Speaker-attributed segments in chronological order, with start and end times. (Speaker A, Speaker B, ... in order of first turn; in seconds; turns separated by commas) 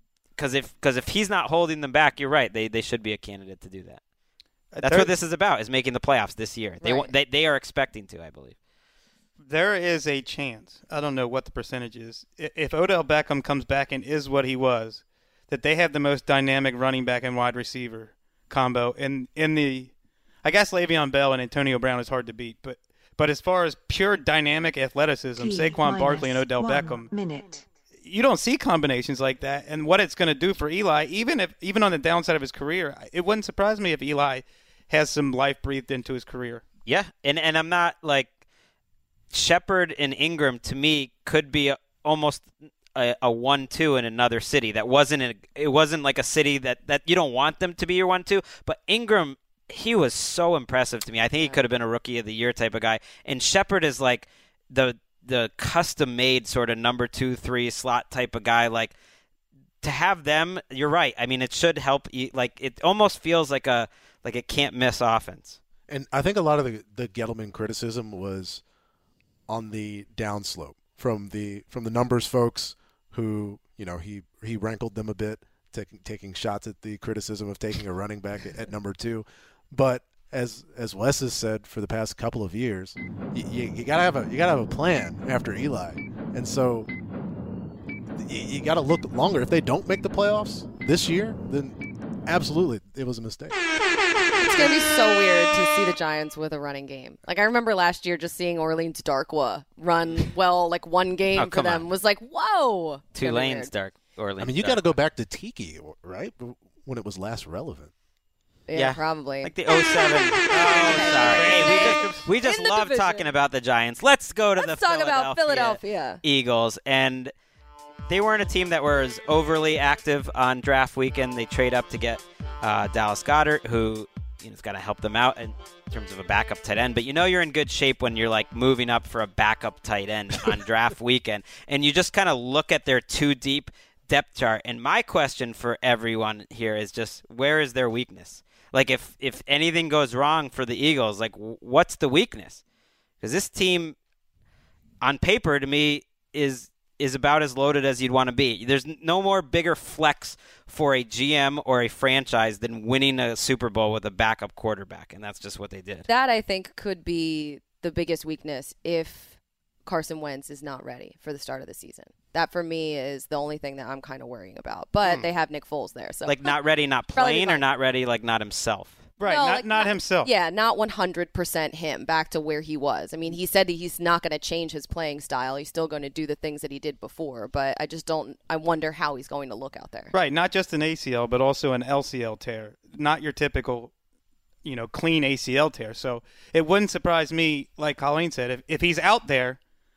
Speaker A: 0.4-4.0, Speaker B: 4.7-5.1, Speaker A: 4.8-8.6, Speaker C: 6.8-7.1, Speaker B: 9.4-27.1, Speaker D: 25.4-27.6, Speaker B: 28.0-36.6, Speaker A: 36.9-38.3, Speaker A: 39.3-58.9, Speaker A: 59.8-65.6, Speaker E: 65.9-68.6, Speaker E: 69.5-86.9, Speaker E: 88.2-93.5, Speaker C: 94.4-103.7, Speaker A: 101.3-101.9, Speaker A: 103.1-105.0, Speaker E: 104.4-107.9, Speaker C: 108.7-109.5, Speaker A: 108.7-117.3, Speaker C: 110.5-113.3, Speaker B: 110.8-112.3, Speaker C: 114.6-116.2, Speaker A: 118.1-142.6, Speaker A: 143.2-143.9, Speaker A: 145.0-156.1, Speaker C: 156.1-166.5, Speaker A: 166.2-169.0, Speaker C: 167.2-167.6, Speaker B: 169.2-170.3, Speaker C: 169.2-180.1, Speaker B: 180.1-183.9, Speaker B: 184.6-189.6